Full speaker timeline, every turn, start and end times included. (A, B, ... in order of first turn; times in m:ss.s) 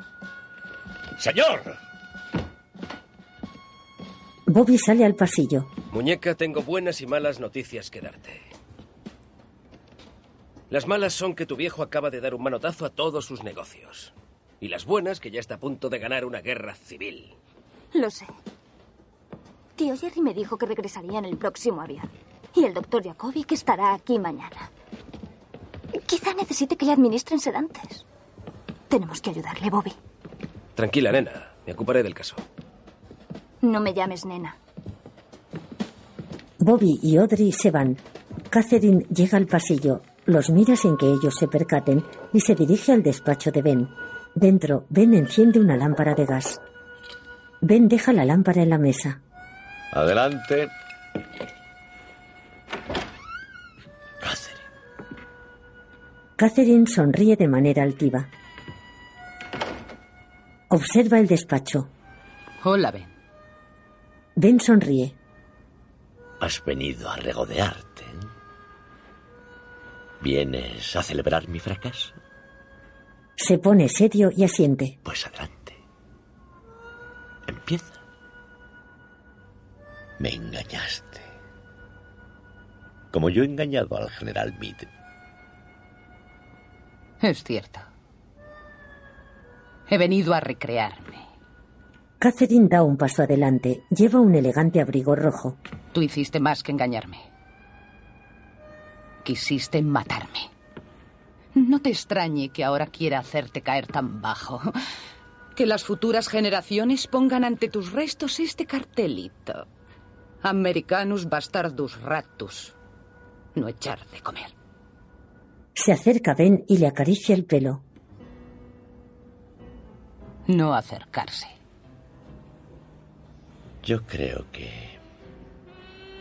0:01.2-0:01.7 A
0:04.5-0:05.7 B
0:05.9-0:08.4 C
0:10.7-0:17.3 C
0:17.9-0:18.3 D
0:19.8-0:24.7 D
0:26.1-0:28.0 D
0:28.9-0:30.0 D
0:30.8-0:32.4 C
0:33.6-0:34.6 D
0:36.6-0:46.6 B
0:47.6-0:49.2 B
0:49.9-0:50.7 A
0:54.2-0:54.6 A
0:56.4-0:58.3 B
1:00.7-1:01.9 B
1:02.6-1:03.1 E
1:04.4-1:05.2 B
1:06.4-1:08.2 A
1:10.2-1:12.2 A
1:13.4-1:15.0 B
1:15.0-1:15.8 A
1:17.5-1:18.0 A
1:20.2-1:21.3 A
1:23.1-1:24.9 A
1:27.2-1:27.9 E
1:29.9-1:31.2 E
1:32.2-1:35.6 B
1:35.9-1:37.2 E
1:39.2-1:40.5 E
1:41.6-1:44.7 E
1:45.6-1:49.7 E
1:50.4-1:52.7 E
1:53.6-1:54.5 E
1:55.8-1:57.8 B
2:00.5-2:01.5 E
2:03.8-2:05.0 A